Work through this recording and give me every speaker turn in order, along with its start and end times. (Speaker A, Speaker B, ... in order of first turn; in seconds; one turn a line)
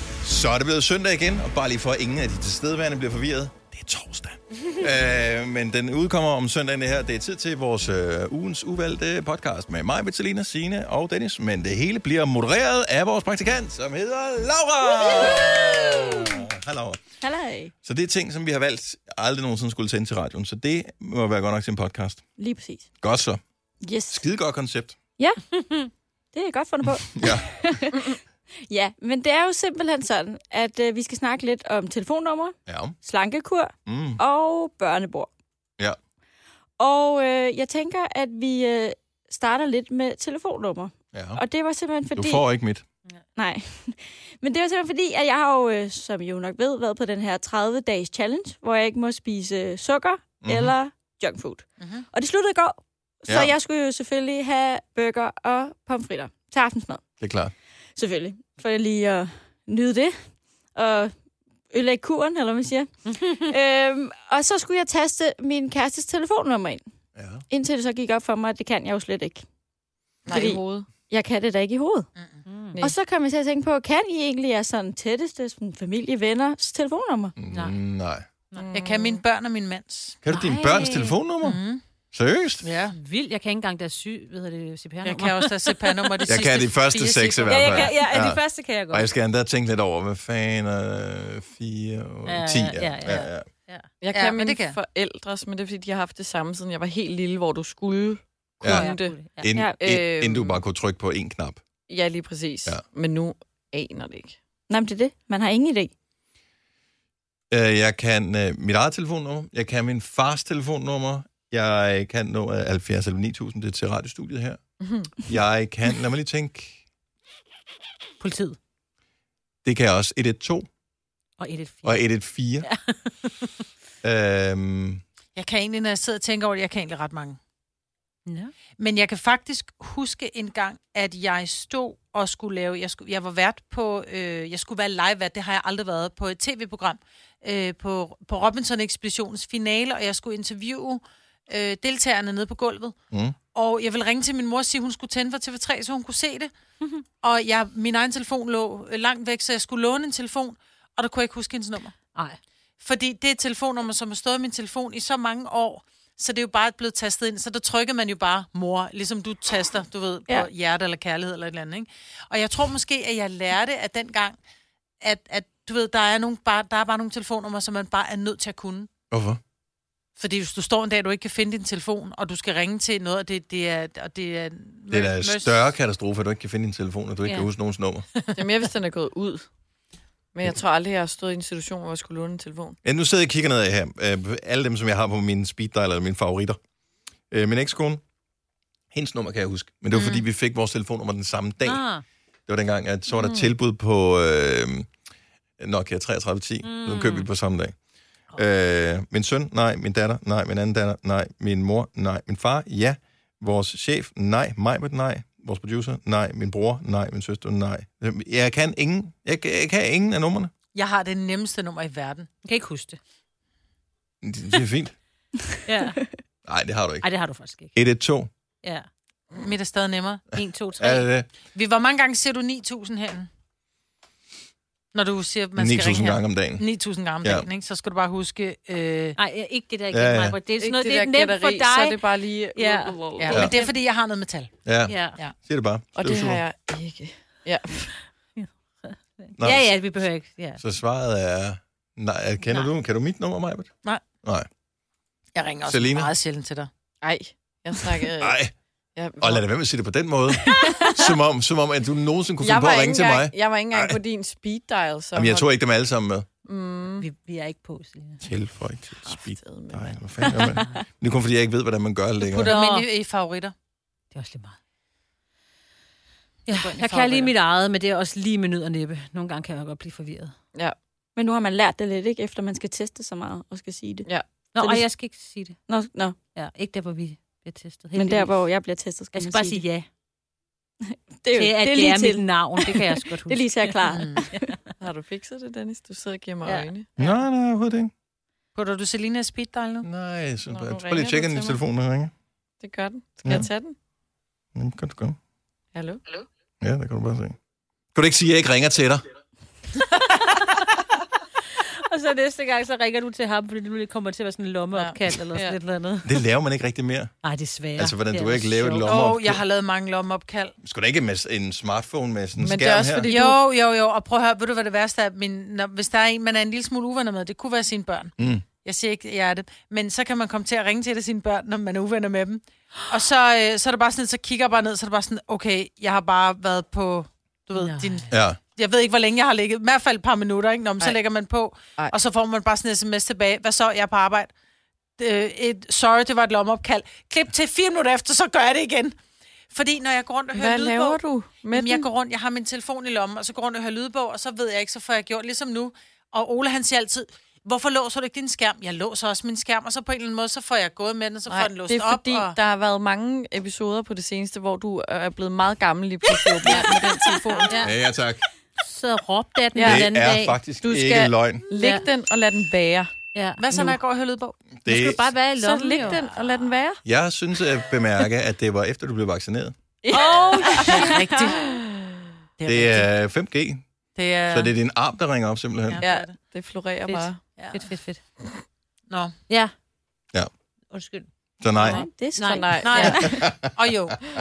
Speaker A: 0.2-17.0
Speaker B: 15.0-16.3
Speaker B: 17.2-17.7
Speaker A: 17.8-22.2
Speaker B: 22.4-22.9
Speaker A: 23.0-23.4
Speaker B: 23.8-24.2
Speaker A: 24.1-25.0
Speaker B: 26.3-35.3
Speaker A: 27.1-27.5
Speaker C: 27.9-28.2
Speaker A: 32.7-33.0
Speaker A: 33.9-34.2
Speaker B: 36.8-42.5
Speaker A: 41.1-41.4
Speaker A: 42.1-42.9
Speaker B: 43.4-57.0
Speaker A: 50.4-50.7
Speaker D: 51.8-52.0
Speaker A: 57.2-57.5
Speaker B: 58.0-61.1
Speaker B: 61.7-66.8
Speaker E: 63.1-63.4
Speaker A: 67.2-67.4
Speaker B: 67.5-69.5
Speaker C: 70.2-70.9
Speaker B: 70.3-72.1
Speaker E: 72.5-72.8
Speaker B: 72.8-77.3
Speaker A: 77.4-78.2
Speaker E: 77.5-77.8
Speaker C: 78.5-79.2
Speaker D: 78.7-80.2
Speaker A: 80.2-81.6
Speaker E: 80.3-81.2
Speaker D: 81.4-81.8
Speaker A: 82.1-82.7
Speaker D: 82.6-83.0
Speaker E: 82.9-86.4
Speaker D: 85.0-88.0
Speaker A: 86.2-93.5
Speaker E: 87.5-89.1
Speaker E: 92.2-93.9
Speaker C: 94.0-99.1
Speaker D: 94.1-94.8
Speaker A: 98.6-101.6
Speaker E: 98.7-99.5
Speaker B: 99.5-99.8
Speaker C: 99.8-100.6
Speaker C: 101.9-104.4
Speaker B: 104.7-105.9
Speaker A: 107.5-114.6
Speaker C: 114.8-115.1
Speaker A: 115.2-116.8
Speaker E: 118.2-118.6
Speaker A: 119.6-120.7
Speaker E: 121.4-122.0
Speaker A: 121.8-122.7
Speaker E: 122.6-123.5
Speaker A: 124.0-125.0
Speaker D: 125.3-127.4
Speaker E: 128.3-128.5
Speaker D: 128.8-142.9
Speaker D: 143.5-146.5
Speaker D: 147.2-152.0
Speaker D: 152.8-164.3
Speaker D: 165.0-168.9
Speaker A: 169.1-169.4
Speaker D: 170.2-175.7
Speaker A: 174.9-178.1
Speaker C: 178.3-179.5
Speaker C: 180.3-182.8
Speaker A: 182.8-186.6
Speaker A: 187.3-188.0
Speaker A: 188.9-191.8
Speaker D: 189.9-190.2
Speaker E: 191.6-192.0
Speaker A: 192.5-194.9
Speaker C: 193.1-193.5
Speaker A: 195.6-197.8
Speaker E: 196.6-197.3
Speaker A: 198.3-210.5
Speaker D: 210.8-212.3
Speaker E: 212.4-213.0
Speaker A: 214.2-214.9
Speaker E: 215.7-216.1
Speaker A: 216.4-217.1
Speaker E: 217.0-217.7
Speaker A: 217.8-218.3
Speaker D: 219.3-220.2
Speaker E: 220.3-221.1
Speaker A: 220.8-221.3
Speaker D: 221.5-223.3
Speaker D: 224.9-229.2
Speaker A: 225.6-226.6
Speaker E: 229.2-232.0
Speaker A: 229.9-230.4
Speaker C: 230.6-233.4
Speaker E: 232.5-233.7
Speaker D: 233.2-234.5
Speaker A: 234.7-236.4
Speaker E: 234.9-235.2
Speaker C: 235.9-237.9
Speaker E: 238.4-240.6
Speaker A: 239.4-239.8
Speaker A: 240.6-243.7
Speaker A: 244.2-244.5
Speaker D: 245.3-246.7
Speaker A: 245.7-246.1
Speaker C: 247.0-248.4
Speaker A: 248.2-248.5
Speaker C: 248.9-249.4
Speaker A: 249.2-254.0
Speaker C: 250.5-251.1
Speaker C: 252.4-255.5
Speaker A: 255.1-256.3
Speaker C: 256.4-257.1
Speaker E: 257.0-258.2
Speaker A: 258.2-262.5
Speaker C: 259.0-260.4
Speaker D: 262.3-263.5
Speaker E: 262.4-262.9
Speaker E: 264.1-264.6
Speaker E: 266.5-270.3
Speaker D: 266.6-267.3
Speaker B: 271.1-274.1
Speaker E: 274.5-275.6
Speaker B: 274.6-274.8
Speaker B: 275.7-276.1
Speaker E: 276.3-278.4
Speaker B: 277.9-279.6
Speaker E: 279.1-279.9
Speaker B: 280.9-284.5
Speaker E: 281.4-284.6
Speaker D: 283.9-284.2
Speaker C: 284.8-286.9
Speaker E: 286.4-287.2
Speaker A: 287.0-287.9
Speaker D: 288.6-289.9
Speaker A: 289.8-292.1
Speaker C: 290.5-291.6
Speaker C: 292.6-293.8
Speaker A: 294.6-295.2
Speaker C: 295.7-296.0
Speaker A: 296.6-297.4
Speaker A: 297.9-299.1
Speaker E: 299.8-300.7
Speaker E: 301.5-306.2
Speaker C: 304.7-305.6
Speaker A: 306.1-307.1
Speaker E: 307.2-309.0
Speaker A: 307.8-309.4
Speaker D: 308.8-310.6
Speaker A: 310.6-313.1
Speaker C: 312.4-313.4
Speaker D: 313.0-334.3
Speaker A: 318.2-318.4
Speaker E: 327.6-328.1
Speaker A: 328.1-328.4
Speaker D: 335.0-338.9
Speaker D: 339.5-341.0
Speaker C: 340.3-341.9
Speaker D: 341.5-352.4
Speaker C: 351.3-357.6
Speaker D: 356.4-357.6
Speaker E: 357.4-357.7
Speaker A: 357.6-358.2
Speaker E: 358.6-360.4
Speaker C: 359.6-359.9
Speaker A: 359.6-361.5
Speaker C: 360.6-362.9
Speaker E: 361.5-361.9
Speaker E: 363.1-363.4
Speaker D: 363.4-364.4
Speaker C: 363.5-363.8
Speaker A: 364.6-365.1
Speaker E: 364.6-366.1
Speaker C: 365.4-366.8
Speaker D: 365.8-366.1
Speaker A: 366.8-369.6
Speaker C: 369.8-371.8
Speaker B: 369.9-371.2
Speaker E: 370.1-370.8
Speaker D: 370.6-371.6
Speaker D: 372.4-372.9
Speaker A: 372.5-373.6
Speaker D: 373.9-374.5
Speaker A: 374.3-375.8
Speaker D: 375.6-376.1
Speaker C: 375.8-377.2
Speaker E: 376.9-378.0
Speaker D: 377.4-377.7
Speaker D: 378.9-379.1
Speaker E: 380.7-381.1
Speaker A: 381.4-381.8
Speaker C: 381.6-383.2
Speaker B: 381.6-383.2
Speaker E: 382.2-383.0
Speaker D: 382.6-384.0
Speaker A: 383.0-383.5